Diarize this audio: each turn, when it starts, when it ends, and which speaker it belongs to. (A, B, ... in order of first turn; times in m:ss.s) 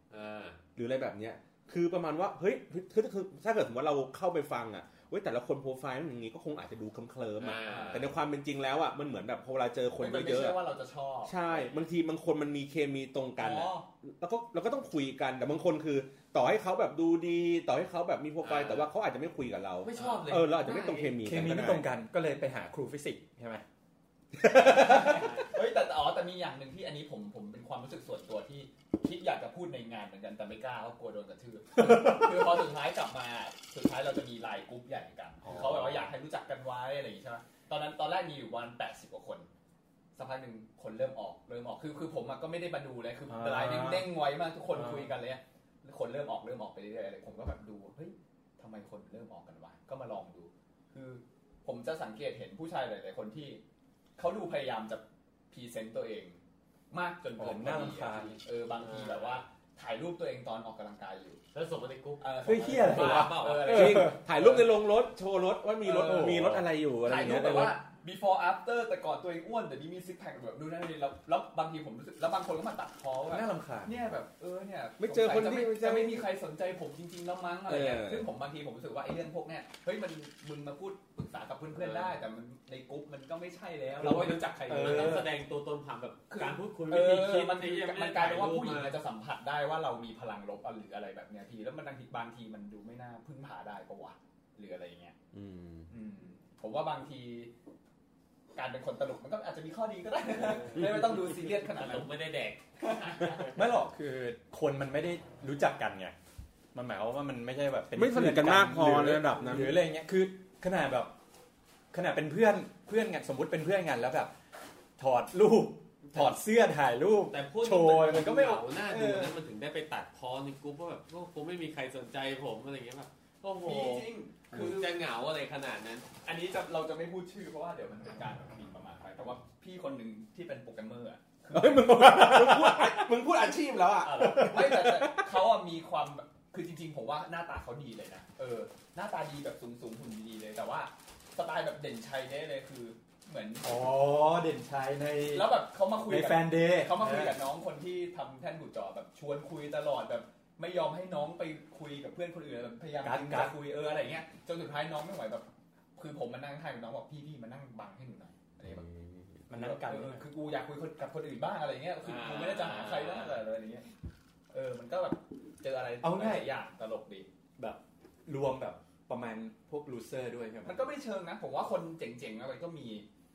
0:00.1-0:00.6 A
0:00.8-0:10.6 B
0:07.4-0:08.1 A
0:07.6-0:08.1 C
0:10.0-0:11.7 C
0:11.2-0:21.9 B
0:13.4-0:13.8 C
0:18.4-0:18.9 A
0:19.8-0:21.1 A
0:19.9-0:20.3 C
0:21.2-0:23.6 D
0:24.4-0:39.5 C
0:24.6-0:25.3 D
0:31.8-0:32.3 D
0:35.5-0:36.0 B
0:40.1-0:53.6 C
0:43.3-0:44.1 D
0:44.7-0:45.1 D
0:54.2-0:56.4 C
0:56.9-1:01.4 C
0:57.4-0:58.4 D
0:58.8-0:59.4 A
1:01.5-1:03.9 A
1:02.2-1:04.7 C
1:02.4-1:04.2 D
1:03.7-1:07.8 B
1:05.8-1:25.3 C
1:05.9-1:06.6 D
1:07.2-1:07.6 D
1:13.3-1:13.9 D
1:15.0-1:16.2 B
1:17.7-1:18.3 B
1:21.8-1:22.1 A
1:24.0-1:29.0 A
1:24.7-1:25.2 D
1:26.3-1:35.1 C
1:35.3-1:35.9 B
1:35.9-1:37.5 C
1:38.6-1:42.1 C
1:40.5-1:42.6 A
1:40.8-1:41.2 B
1:42.8-1:43.5 C
1:43.2-1:43.5 A
1:43.5-1:46.1 D
1:46.7-1:51.1 D
1:47.9-1:49.8 B
1:51.9-1:54.3 D
1:55.0-1:59.2 D
1:57.3-2:06.0 A
1:58.9-1:59.3 C
2:03.6-2:04.9 C
2:06.2-2:13.0 C
2:11.5-2:15.3 B
2:14.0-2:23.7 C
2:23.6-2:27.4 D
2:25.3-2:38.8 C
2:33.0-2:33.5 D
2:38.6-2:39.2 B
2:39.5-2:40.2 D
2:39.5-2:43.8 C
2:42.0-2:43.4 A
2:44.5-2:47.3 C
2:46.0-2:46.5 D
2:47.6-2:50.8 D
2:50.6-2:53.0 C